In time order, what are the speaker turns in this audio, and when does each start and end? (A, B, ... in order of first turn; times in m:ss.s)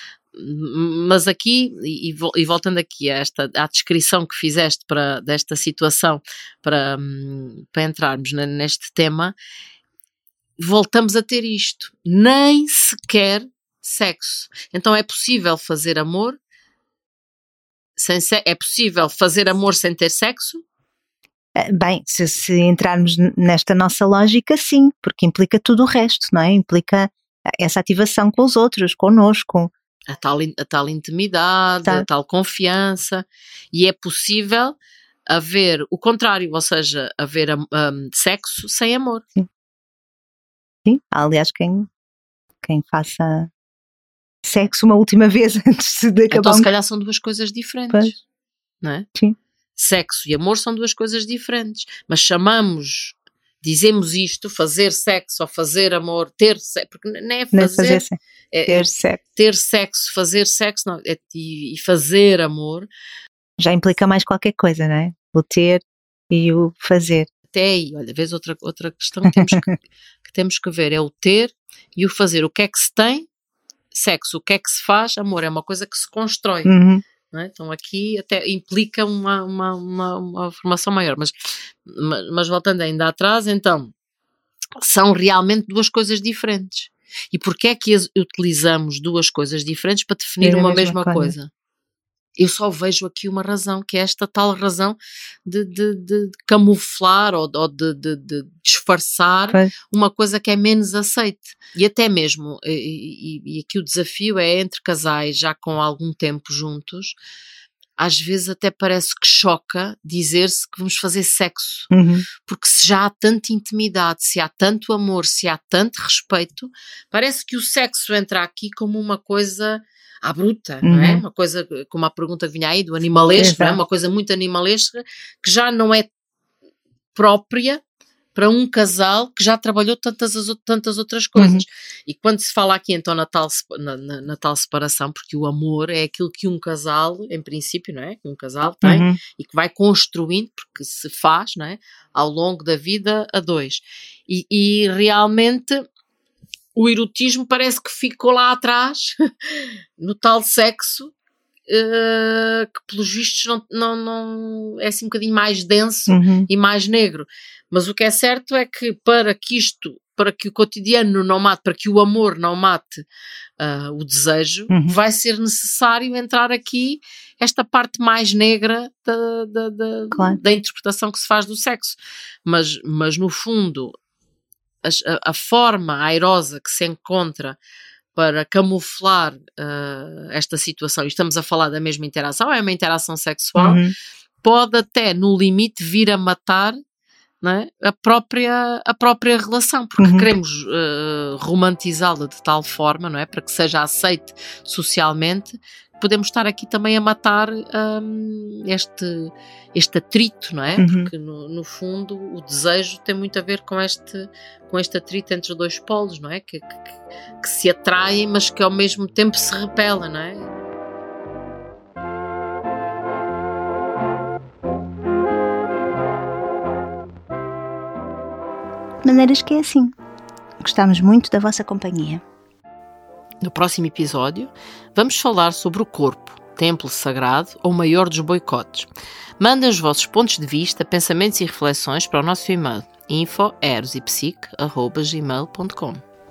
0:00.3-0:09.3 A
0:10.6-0:16.4 A
0:18.0-0:20.6 A
0:21.6-0:29.7 B
0:30.1-0:34.8 A
0:35.3-0:39.2 A
0:40.8-0:41.9 B
0:42.6-0:43.5 B
0:44.4-0:46.7 B
0:46.3-0:48.2 A
0:48.8-0:49.1 A
0:49.8-1:02.9 A
0:57.5-0:58.2 B
0:58.7-0:59.2 B
1:03.6-1:07.3 B
1:07.5-1:13.2 A
1:09.3-1:09.7 B
1:13.9-1:16.7 A
1:16.6-1:17.0 B
1:17.3-1:21.3 A
1:21.8-1:23.9 A
1:24.8-1:31.5 A
1:30.4-1:31.3 B
1:32.4-1:47.2 A
1:48.0-1:51.9 A
1:51.9-1:52.2 B
1:52.4-2:06.1 A
2:00.8-2:01.2 B
2:03.3-2:03.8 B
2:07.1-2:07.8 A
2:08.3-2:25.8 A
2:11.4-2:11.6 B
2:18.8-2:19.2 B
2:26.8-2:31.1 A
2:31.7-2:43.0 A
2:36.1-2:36.5 B
2:43.6-2:53.9 A
2:44.7-2:44.9 B
2:50.1-2:50.4 B
2:54.8-2:57.6 A
2:58.1-3:03.8 A
3:03.6-3:03.9 B
3:04.4-3:06.8 A
3:07.4-3:30.5 A
3:10.0-3:10.3 B
3:20.8-3:21.1 B
3:39.0-3:39.9 B
3:40.6-3:42.2 B
3:43.4-3:48.9 A
3:49.4-3:56.0 A